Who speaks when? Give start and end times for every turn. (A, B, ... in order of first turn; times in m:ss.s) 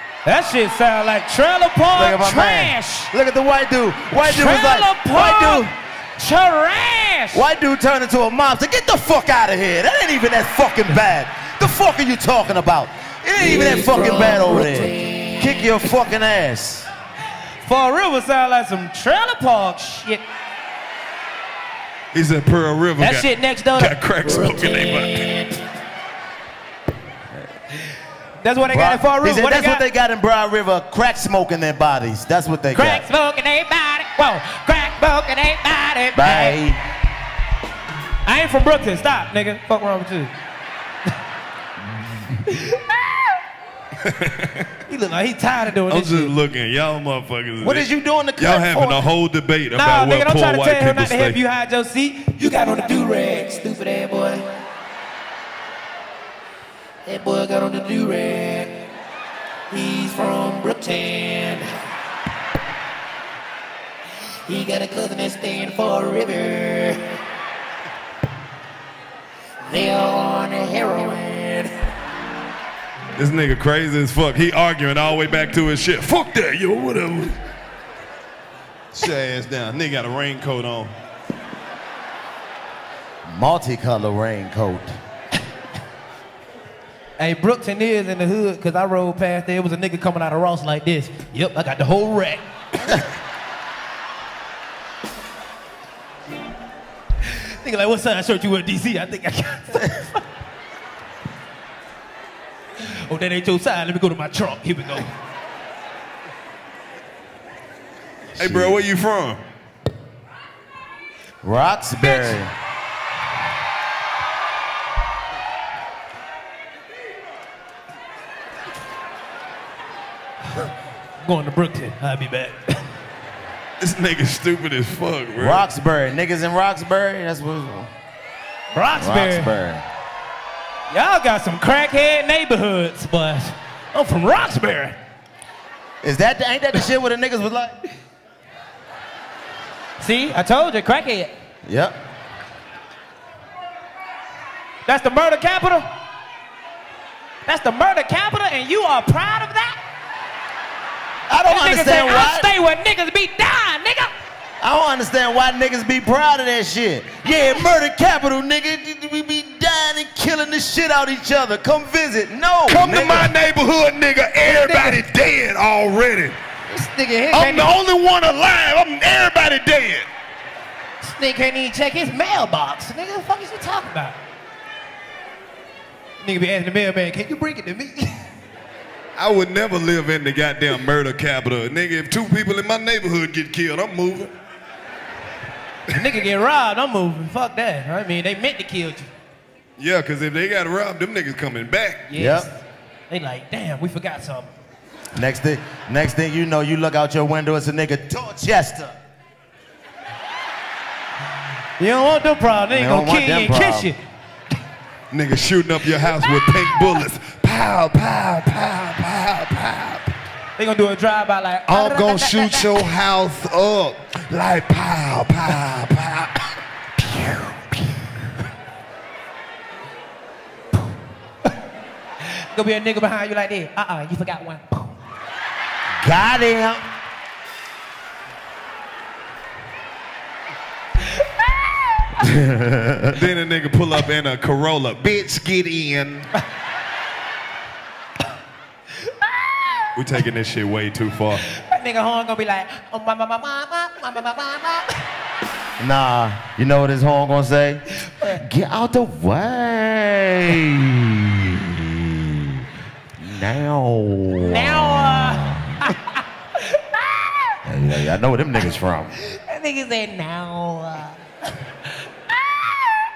0:00.2-0:03.1 A
0:01.9-0:05.7 B
0:04.2-0:07.4 A
0:07.3-0:16.9 B
0:13.4-0:14.4 C
0:17.6-0:20.2 A
0:22.1-0:25.3 C
0:23.0-0:25.6 A
0:28.4-0:29.8 A
0:28.7-0:33.0 B
0:32.7-0:36.6 A
0:36.1-0:36.8 B
0:38.2-0:40.3 A
0:42.5-0:43.2 A
0:44.0-0:44.7 C
0:44.9-0:46.3 A
0:45.9-0:51.4 C
0:47.6-0:49.0 B
0:49.7-0:54.4 A
0:57.1-0:58.7 A
0:59.7-1:01.6 A
1:04.5-1:06.9 A
1:09.7-1:10.5 A
1:13.2-1:17.4 C
1:18.9-1:20.9 C
1:23.2-1:25.0 B
1:27.2-1:32.4 A
1:37.3-1:40.2 A
1:42.8-1:45.1 A
1:48.3-1:48.8 B
1:48.4-1:49.4 C
1:51.4-1:52.5 B
2:01.2-2:02.8 A
2:03.8-2:05.6 C
2:05.3-2:07.9 B
2:08.7-2:09.5 A
2:09.0-2:09.8 B
2:10.9-2:15.0 A
2:16.0-2:17.8 B
2:20.0-2:21.3 A
2:21.6-2:22.0 B
2:24.8-2:25.9 A
2:27.4-2:29.8 A
2:31.3-2:32.5 B
2:31.5-2:34.1 A
2:34.6-2:43.3 B
2:42.7-2:46.4 C
2:44.4-2:45.0 A
2:46.7-2:47.7 A
2:47.3-2:50.1 C
2:51.0-2:54.2 A
2:56.2-2:58.2 A
2:59.2-3:04.3 C
3:05.9-3:09.1 A
3:09.8-3:12.0 C
3:12.1-3:12.6 A
3:12.1-3:12.5 B
3:13.1-3:14.5 A
3:15.1-3:19.0 B
3:21.8-3:24.0 A
3:22.7-3:23.9 B
3:25.1-3:30.1 C
3:30.6-3:32.8 A
3:31.7-3:36.4 C
3:42.5-3:44.9 A
3:46.0-3:46.8 B
3:52.2-3:53.2 B
3:53.1-3:56.3 C
3:59.2-3:59.8 A
4:00.0-4:01.4 C
4:01.5-4:04.9 A
4:05.8-4:12.6 B
4:13.2-4:15.9 B
4:14.4-4:17.3 A
4:17.6-4:19.1 B
4:19.2-4:21.2 A